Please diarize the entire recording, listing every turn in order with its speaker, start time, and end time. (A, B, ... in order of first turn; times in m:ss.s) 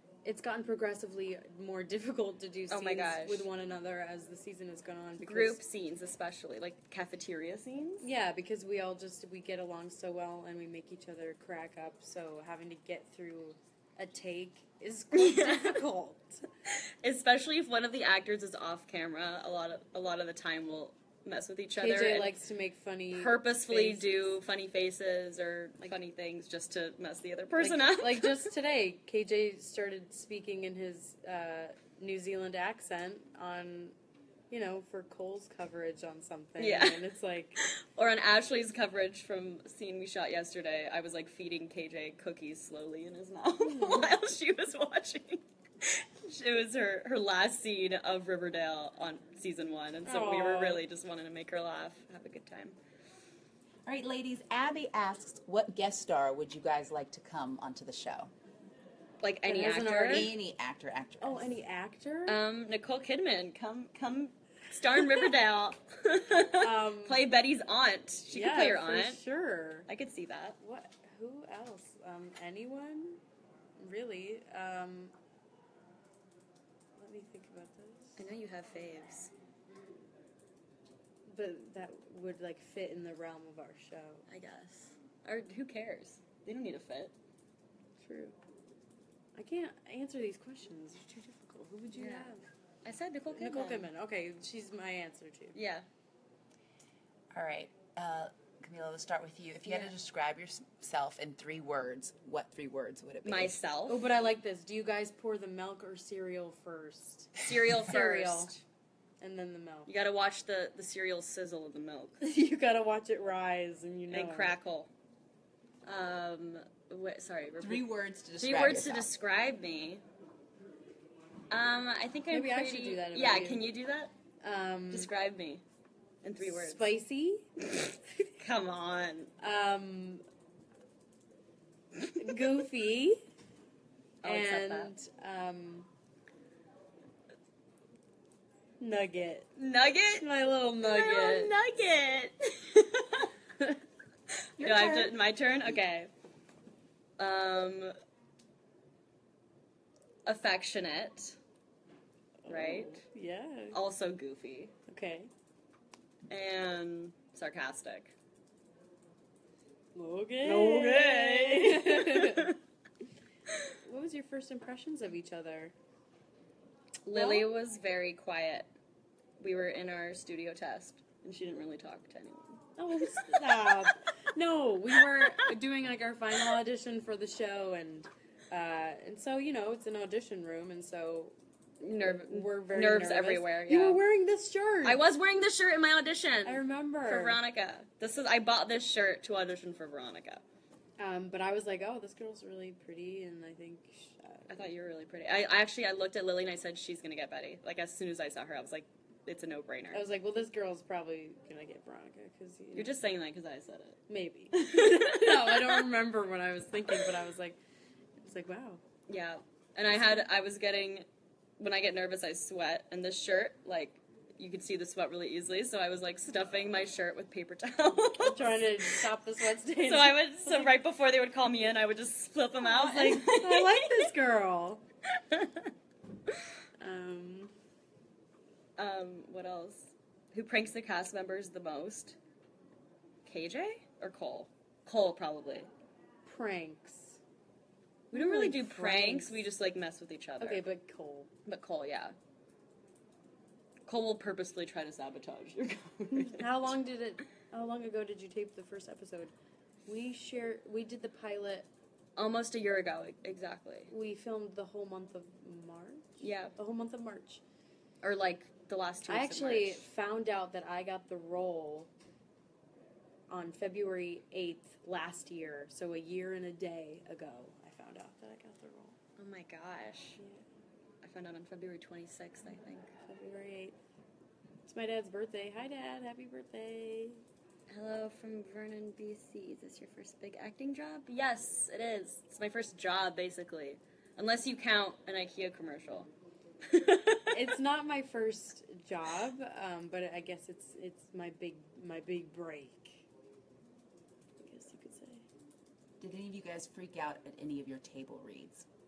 0:00.2-0:05.6 A
0:02.7-0:03.5 B
0:05.2-0:08.1 B
0:08.0-0:16.5 A
0:15.1-0:15.8 B
0:16.6-0:22.3 B
0:21.8-0:24.4 A
0:23.1-0:28.5 B
0:27.6-0:34.0 A
0:34.5-0:37.6 A
0:36.6-0:52.8 B
0:43.6-0:44.1 A
0:50.0-0:50.8 A
0:53.8-0:58.3 C
0:59.2-1:00.3 B
0:59.4-1:00.3 A
1:00.1-1:01.5 C
1:01.2-1:02.4 A
1:02.2-1:09.2 B
1:06.6-1:07.2 A
1:08.3-1:09.9 A
1:09.9-1:10.6 B
1:10.6-1:13.2 A
1:13.8-1:15.1 A
1:17.0-1:18.2 A
1:18.2-1:19.3 B
1:21.3-1:24.2 A
1:24.3-1:27.1 B
1:28.0-1:28.4 A
1:29.3-1:32.4 A
1:31.9-1:33.9 B
1:33.4-1:35.6 A
1:35.5-1:35.9 B
1:37.3-1:43.6 C
1:39.6-1:39.9 B
1:43.2-1:44.1 B
1:43.9-1:48.6 A
1:47.4-1:48.6 B
1:49.2-1:49.9 A
1:49.9-1:52.2 B
1:52.2-1:54.5 A
1:54.1-1:54.9 B
1:55.8-1:57.9 B
1:57.6-1:59.1 C
1:58.4-2:00.0 B
2:01.5-2:04.1 B
2:02.3-2:03.7 A
2:04.4-2:05.1 A
2:04.9-2:05.6 B
2:06.2-2:06.9 B
2:06.4-2:07.5 A
2:07.6-2:09.3 B
2:09.4-2:10.2 A
2:12.2-2:13.2 A
2:14.2-2:14.9 B
2:14.2-2:15.9 A
2:18.8-2:19.5 A
2:19.5-2:20.2 B
2:20.2-2:21.5 A
2:20.8-2:23.3 B
2:24.6-2:25.2 C
2:24.6-2:26.1 B
2:27.2-2:27.9 B
2:30.2-2:31.4 B
2:32.4-2:33.8 A
2:32.5-2:33.0 B
2:33.7-2:34.7 B
2:34.9-2:35.3 A
2:36.3-2:38.1 B
2:39.9-2:42.5 A
2:40.4-2:42.6 B
2:43.8-2:45.7 A
2:47.0-2:48.7 B
2:47.1-2:47.5 A
2:49.4-2:53.9 B
2:52.8-3:01.3 A
2:54.9-2:55.5 B
3:01.8-3:04.0 B
3:02.0-3:05.0 A
3:04.8-3:10.4 B
3:06.4-3:07.4 A
3:11.0-3:14.7 A
3:14.5-3:20.0 B
3:19.9-3:22.9 A
3:22.7-3:24.0 B
3:24.1-3:27.6 A
3:24.5-3:25.9 B
3:28.2-3:28.8 A
3:29.1-3:31.1 B
3:31.6-3:39.0 B
3:38.2-3:40.7 A
3:39.8-3:44.1 B
3:42.6-3:44.8 A
3:45.1-3:45.7 B
3:46.8-3:47.5 A
3:48.8-3:52.2 B
3:53.2-3:55.7 B
3:56.2-3:57.2 A
3:58.1-3:59.4 A
3:58.1-4:00.6 B
4:00.4-4:01.3 A
4:01.4-4:02.2 B
4:03.8-4:06.7 B
4:06.2-4:09.3 A
4:09.8-4:11.7 A
4:12.2-4:13.9 B
4:13.9-4:17.4 A
4:16.2-4:16.6 B
4:18.0-4:19.8 B
4:19.0-4:21.9 A
4:23.3-4:29.0 A
4:29.2-4:30.2 B
4:30.2-4:30.4 A
4:31.0-4:32.9 B
4:33.0-4:33.8 A
4:34.6-4:37.2 A
4:37.7-4:46.1 B
4:46.6-4:47.4 B
4:47.3-4:53.0 A
4:54.4-4:55.2 A
4:56.0-4:58.6 C